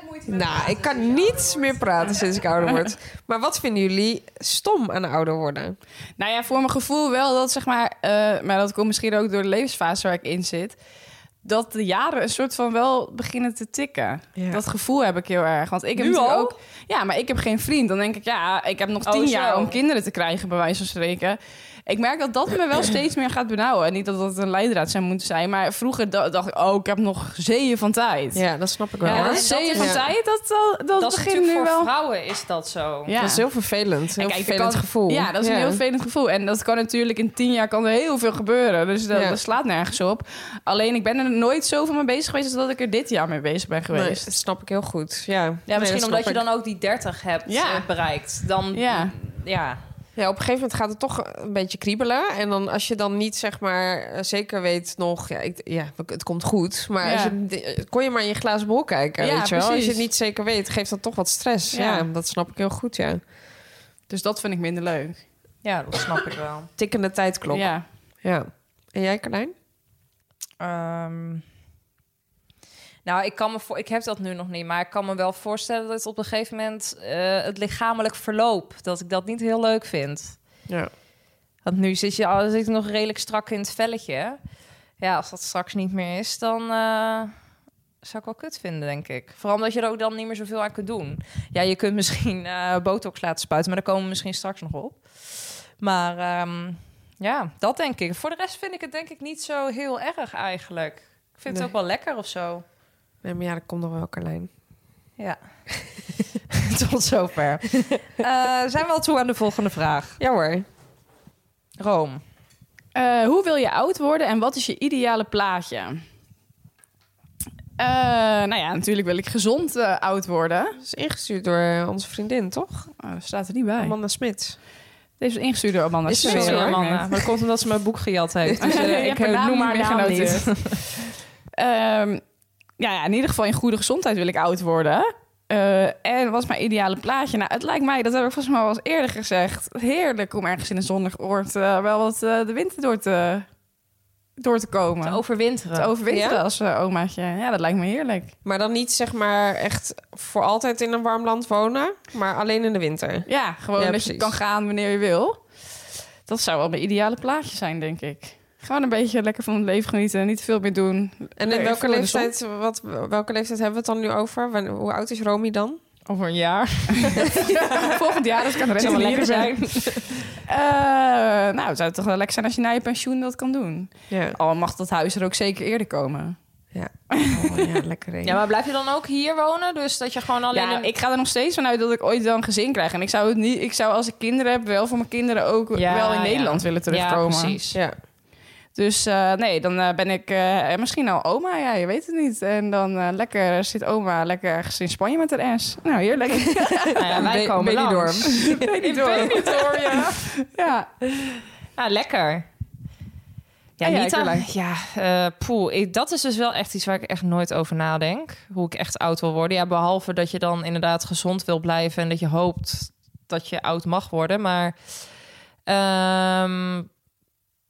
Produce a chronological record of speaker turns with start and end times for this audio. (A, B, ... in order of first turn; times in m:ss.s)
0:00.2-0:05.8 A
0:06.2-0:10.8 B
0:11.4-0:28.4 B
0:14.4-0:14.6 A
0:16.0-0:16.6 C
0:19.1-0:19.8 C
0:28.3-0:30.0 A
0:29.0-0:31.9 B
0:29.0-0:30.1 C
0:31.0-0:33.1 C
0:33.1-0:33.4 B
0:33.2-0:35.8 A
0:34.2-0:44.3 B
0:39.1-0:39.4 A
0:43.9-0:46.4 A
0:45.7-0:49.8 C
0:47.5-0:47.9 B
0:48.7-0:49.1 B
0:50.2-1:03.2 A
0:57.0-0:57.4 B
0:59.2-1:00.0 B
1:01.7-1:02.1 B
1:04.1-1:05.2 B
1:05.6-1:06.7 C
1:06.8-1:07.7 A
1:07.5-1:07.8 B
1:08.2-1:09.5 A
1:10.6-1:11.4 C
1:13.0-1:20.4 C
1:21.6-1:24.4 C
1:25.0-1:27.3 C
1:28.0-1:42.6 C
1:43.2-1:44.5 A
1:46.7-1:50.2 C
1:50.2-1:50.7 A
1:51.8-1:52.2 C
1:53.0-1:56.0 B
1:57.8-2:00.8 B
2:00.8-2:02.9 A
2:03.0-2:04.0 B
2:03.8-2:04.6 A
2:05.2-2:07.1 B
2:06.1-2:06.8 A
2:06.2-2:10.8 C
2:08.6-2:10.9 B
2:11.6-2:12.2 B
2:12.8-2:23.5 B
2:24.4-2:25.2 B
2:25.0-2:25.9 C
2:25.7-2:28.3 B
2:26.1-2:26.4 A
2:28.4-2:34.4 A
2:33.3-2:35.4 B
2:36.3-2:42.3 B
2:41.4-2:45.8 A
2:46.1-2:47.9 C
2:47.2-2:56.4 B
2:48.8-2:50.2 C
2:54.1-2:54.4 A
2:56.7-2:58.4 A
2:57.1-2:57.8 B
2:58.2-3:00.9 C
3:00.5-3:07.6 B
3:05.7-3:07.8 C
3:08.8-3:17.2 B
3:16.6-3:19.8 A
3:17.0-3:20.2 C
3:18.3-3:20.9 B
3:21.8-3:22.5 C
3:23.8-3:34.8 C
3:23.8-3:24.5 B
3:35.7-3:36.9 C